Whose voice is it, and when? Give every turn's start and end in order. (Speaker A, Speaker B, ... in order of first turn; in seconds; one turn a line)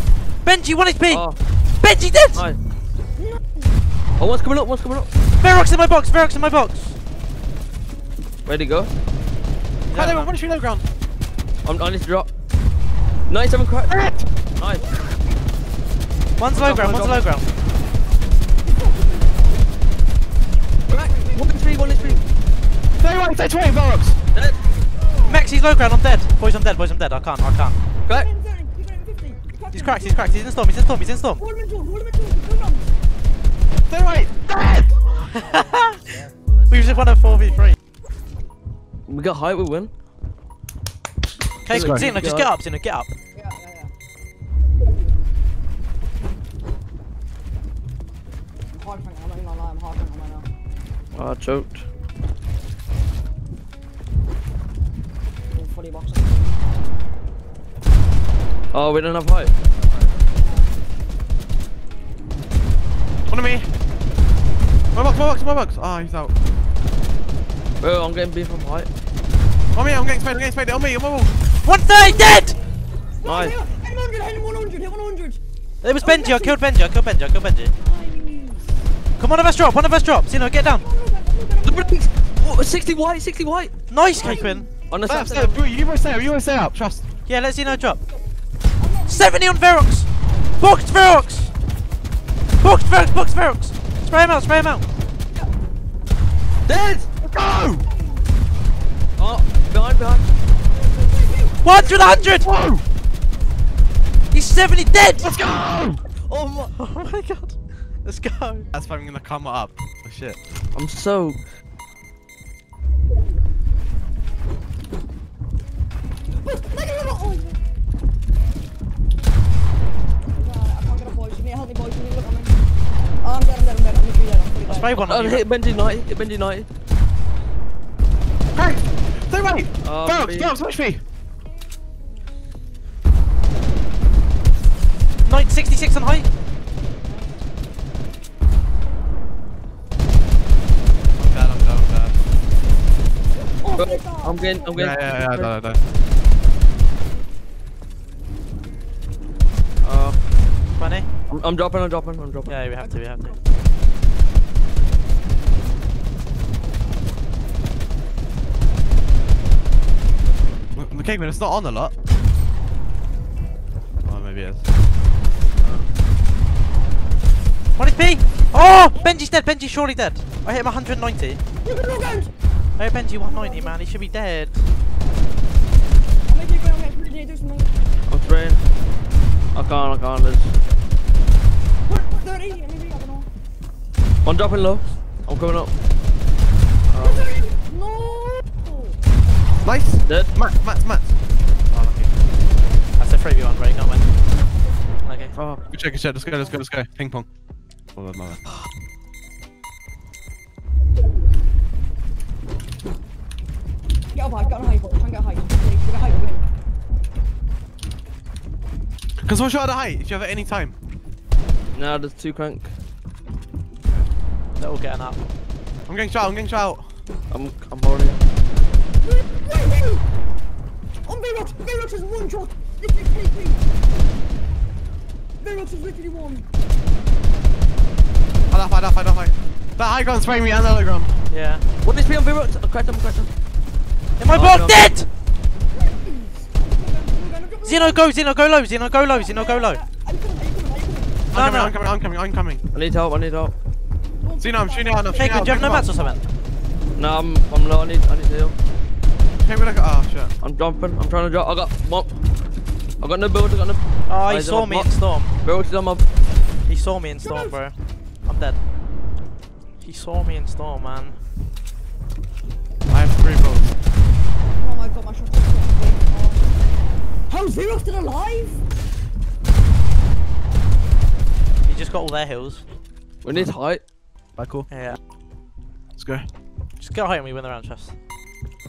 Speaker A: 0.4-1.2
Speaker B: 1.1-1.4
Speaker A: 1.8-2.4
Speaker B: 2.3-2.6
Speaker C: 3.2-3.6
Speaker B: 4.2-5.1
Speaker A: 5.4-7.0
Speaker B: 8.4-8.9
Speaker A: 9.9-10.3
Speaker D: 9.9-10.8
Speaker B: 11.6-12.3
Speaker B: 13.3-13.9
Speaker D: 13.9-14.3
Speaker B: 14.6-14.8
Speaker A: 16.4-17.5
Speaker B: 16.5-17.3
Speaker C: 18.6-19.6
Speaker B: 20.9-22.2
Speaker C: 20.9-22.3
Speaker D: 23.0-24.2
Speaker B: 24.3-24.6
Speaker C: 24.8-25.4
Speaker A: 25.2-27.8
Speaker C: 28.1-30.3
Speaker A: 29.7-31.4
Speaker C: 31.4-32.9
Speaker D: 33.9-34.9
Speaker A: 35.4-36.0
Speaker A: 36.7-37.8
Speaker B: 39.1-39.9
Speaker A: 41.6-43.1
Speaker B: 41.7-42.5
Speaker D: 41.7-42.1
Speaker C: 43.4-43.9
Speaker C: 48.7-50.5
Speaker B: 51.1-51.8
Speaker C: 55.5-56.6
Speaker B: 58.7-59.5
Speaker C: 60.4-60.7
Speaker D: 63.3-63.7
Speaker D: 64.9-66.3
Speaker B: 67.8-68.9
Speaker D: 69.7-71.3
Speaker A: 71.6-72.6
Speaker C: 73.2-75.4
Speaker B: 73.2-73.6
Speaker A: 75.8-77.7
Speaker C: 76.0-76.6
Speaker C: 77.8-78.7
Speaker A: 79.2-80.8
Speaker C: 80.6-82.0
Speaker B: 81.6-83.7
Speaker A: 83.9-84.7
Speaker C: 84.1-84.7
Speaker B: 84.9-85.6
Speaker D: 85.0-87.1
Speaker A: 87.3-88.0
Speaker C: 87.7-88.2
Speaker C: 88.8-89.3
Speaker A: 89.1-90.1
Speaker A: 90.6-91.5
Speaker A: 92.6-94.8
Speaker B: 96.7-97.1
Speaker D: 97.2-97.8
Speaker C: 97.9-98.2
Speaker B: 99.2-100.3
Speaker C: 100.7-102.3
Speaker A: 101.6-102.5
Speaker D: 102.4-102.8
Speaker A: 104.3-105.3
Speaker D: 105.2-106.0
Speaker A: 106.3-108.7
Speaker D: 108.7-110.4
Speaker B: 110.7-111.4
Speaker C: 116.3-117.6
Speaker C: 120.4-122.6
Speaker C: 123.2-125.1
Speaker A: 124.7-125.4
Speaker B: 125.0-126.7
Speaker D: 128.6-131.0
Speaker B: 129.8-130.5
Speaker A: 135.2-136.3
Speaker C: 137.1-137.3
Speaker D: 141.2-142.2
Speaker C: 143.6-144.9
Speaker B: 143.8-145.5
Speaker D: 144.8-145.8
Speaker B: 149.8-150.2
Speaker A: 150.8-151.1
Speaker B: 151.3-152.6
Speaker A: 152.5-153.3
Speaker C: 152.8-153.4
Speaker D: 160.8-161.9
Speaker D: 164.1-164.6
Speaker A: 167.8-171.4
Speaker C: 171.6-172.3
Speaker A: 172.8-174.6
Speaker C: 173.2-173.8
Speaker C: 176.3-177.7
Speaker B: 178.1-178.6
Speaker B: 179.5-180.5
Speaker C: 181.9-183.3
Speaker B: 184.2-185.7
Speaker B: 186.9-187.2
Speaker C: 187.0-189.0
Speaker D: 189.6-191.1
Speaker D: 191.7-192.1
Speaker A: 193.0-194.1
Speaker C: 194.3-195.4
Speaker A: 195.1-195.3
Speaker B: 195.3-195.6
Speaker D: 195.7-197.3
Speaker D: 198.0-198.4
Speaker C: 204.1-206.5
Speaker D: 209.2-210.8
Speaker B: 211.7-212.7
Speaker A: 214.6-215.2
Speaker D: 215.9-216.9
Speaker B: 217.3-218.2
Speaker C: 219.0-220.0
Speaker C: 221.1-223.7
Speaker C: 225.4-226.5
Speaker D: 228.5-231.2
Speaker A: 231.3-231.7
Speaker B: 231.8-233.3
Speaker A: 234.2-235.1
Speaker B: 234.3-234.9
Speaker C: 235.7-238.1
Speaker A: 237.7-239.8
Speaker C: 239.1-241.3
Speaker D: 241.3-242.6
Speaker A: 241.3-241.7
Speaker B: 242.7-243.6
Speaker C: 244.2-246.2
Speaker D: 244.4-245.9
Speaker A: 245.2-246.2
Speaker B: 247.0-248.6
Speaker D: 249.4-250.3
Speaker B: 250.4-252.1
Speaker B: 253.0-254.9
Speaker A: 254.1-255.3
Speaker B: 255.4-256.0
Speaker A: 256.7-257.8
Speaker C: 257.2-257.6
Speaker A: 258.3-258.6
Speaker A: 259.8-261.2
Speaker D: 262.9-263.7
Speaker C: 264.6-266.6
Speaker C: 267.3-268.6
Speaker A: 271.7-272.6
Speaker B: 273.2-273.8
Speaker D: 274.4-274.7
Speaker A: 274.7-275.0
Speaker D: 276.0-276.3
Speaker A: 276.8-277.9